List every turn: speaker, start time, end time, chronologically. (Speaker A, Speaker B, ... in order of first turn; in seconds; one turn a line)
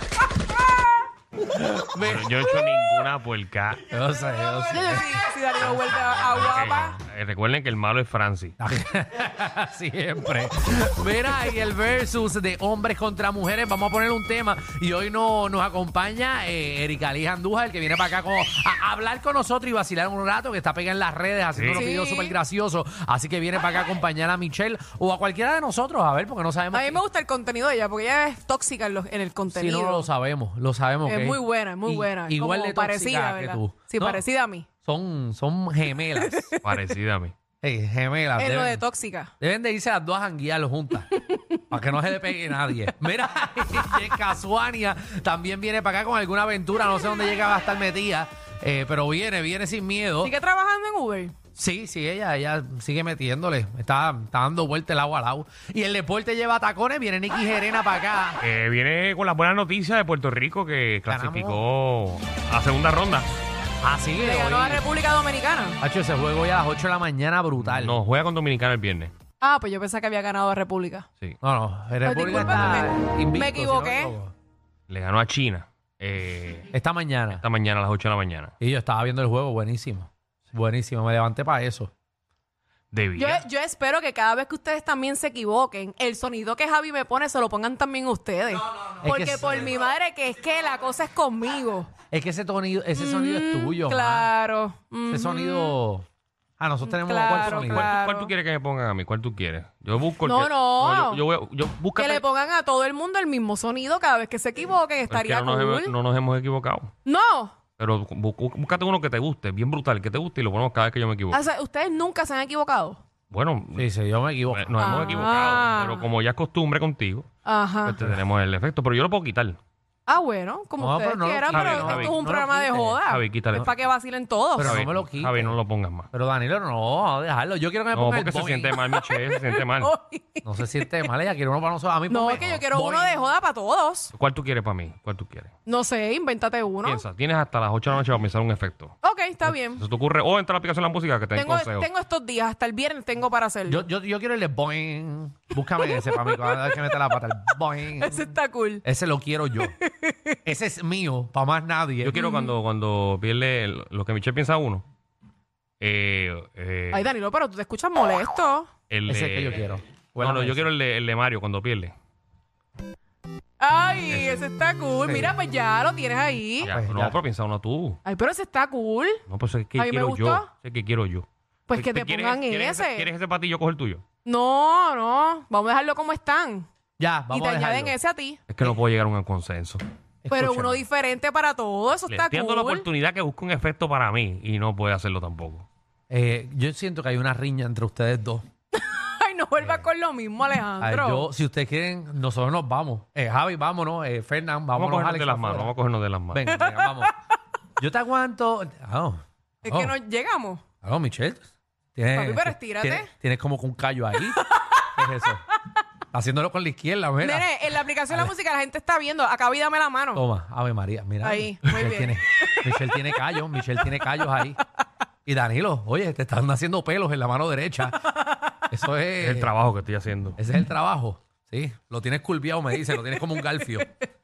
Speaker A: 1.4-2.5
Speaker B: 2.0-3.9
Speaker A: 3.8-5.2
Speaker C: 4.7-7.0
Speaker B: 5.7-8.5
Speaker A: 8.6-27.0
Speaker B: 21.5-21.8
Speaker C: 21.7-22.4
Speaker C: 26.7-30.1
Speaker A: 29.5-34.2
Speaker C: 31.0-34.7
Speaker A: 34.8-36.5
Speaker C: 36.1-36.8
Speaker B: 36.6-37.3
Speaker A: 37.6-38.8
Speaker C: 38.4-39.3
Speaker A: 39.4-41.1
Speaker C: 41.1-41.6
Speaker A: 41.7-50.3
Speaker C: 50.2-51.3
Speaker A: 51.5-58.4
Speaker B: 58.4-63.3
Speaker A: 61.1-61.6
Speaker A: 63.8-64.8
Speaker C: 64.2-65.8
Speaker A: 65.8-68.0
Speaker B: 67.6-69.1
Speaker C: 69.4-71.0
Speaker A: 71.4-74.3
Speaker C: 72.0-74.1
Speaker B: 74.9-76.7
Speaker A: 76.7-77.4
Speaker B: 77.3-78.5
Speaker A: 78.6-81.9
Speaker B: 82.9-83.4
Speaker C: 83.2-91.9
Speaker A: 89.0-89.7
Speaker A: 92.1-94.3
Speaker C: 92.9-95.8
Speaker A: 95.1-96.1
Speaker A: 96.6-97.9
Speaker C: 96.8-98.3
Speaker B: 97.2-102.2
Speaker C: 100.2-101.2
Speaker C: 102.0-105.9
Speaker B: 105.1-106.9
Speaker C: 107.0-107.5
Speaker B: 107.8-111.4
Speaker C: 111.3-113.0
Speaker B: 113.3-113.9
Speaker A: 113.8-115.2
Speaker B: 114.5-117.3
Speaker C: 114.8-116.0
Speaker C: 117.4-118.0
Speaker B: 117.8-119.6
Speaker C: 120.0-124.8
Speaker A: 120.8-123.0
Speaker B: 121.5-122.2
Speaker B: 123.0-123.7
Speaker A: 124.5-125.5
Speaker B: 124.6-126.1
Speaker A: 126.1-128.8
Speaker B: 127.9-129.9
Speaker C: 128.8-131.1
Speaker A: 130.4-133.2
Speaker C: 132.1-134.1
Speaker B: 134.1-135.5
Speaker C: 135.7-137.0
Speaker B: 136.8-141.9
Speaker C: 139.0-139.8
Speaker C: 141.3-143.8
Speaker A: 143.7-148.3
Speaker C: 145.8-146.9
Speaker C: 148.0-148.8
Speaker A: 148.8-149.7
Speaker C: 149.6-150.4
Speaker A: 150.4-152.2
Speaker B: 152.0-154.8
Speaker C: 152.1-152.5
Speaker B: 155.8-157.1
Speaker C: 156.9-158.7
Speaker B: 158.9-159.6
Speaker A: 159.1-160.7
Speaker B: 160.2-161.9
Speaker C: 163.6-166.7
Speaker B: 164.1-164.5
Speaker A: 165.0-165.3
Speaker B: 166.6-168.0
Speaker A: 166.6-167.2
Speaker C: 168.0-169.2
Speaker B: 169.3-174.0
Speaker C: 169.8-170.5
Speaker C: 171.7-173.1
Speaker C: 174.2-176.7
Speaker A: 177.0-178.0
Speaker C: 177.3-178.4
Speaker B: 178.5-179.8
Speaker A: 180.2-180.8
Speaker C: 180.3-182.9
Speaker B: 182.1-185.7
Speaker A: 186.1-188.4
Speaker C: 188.7-191.3
Speaker A: 190.8-195.7
Speaker B: 194.7-196.4
Speaker A: 196.3-197.1
Speaker C: 196.5-197.1
Speaker A: 197.8-199.9
Speaker C: 199.6-200.6
Speaker A: 200.8-204.4
Speaker C: 202.1-203.1
Speaker C: 204.3-204.9
Speaker A: 204.9-205.4
Speaker A: 206.1-208.3
Speaker C: 207.2-210.2
Speaker A: 210.1-214.6
Speaker C: 211.2-213.2
Speaker C: 213.8-214.3
Speaker A: 215.2-218.0
Speaker A: 218.7-219.5
Speaker B: 219.2-220.4
Speaker A: 220.4-223.9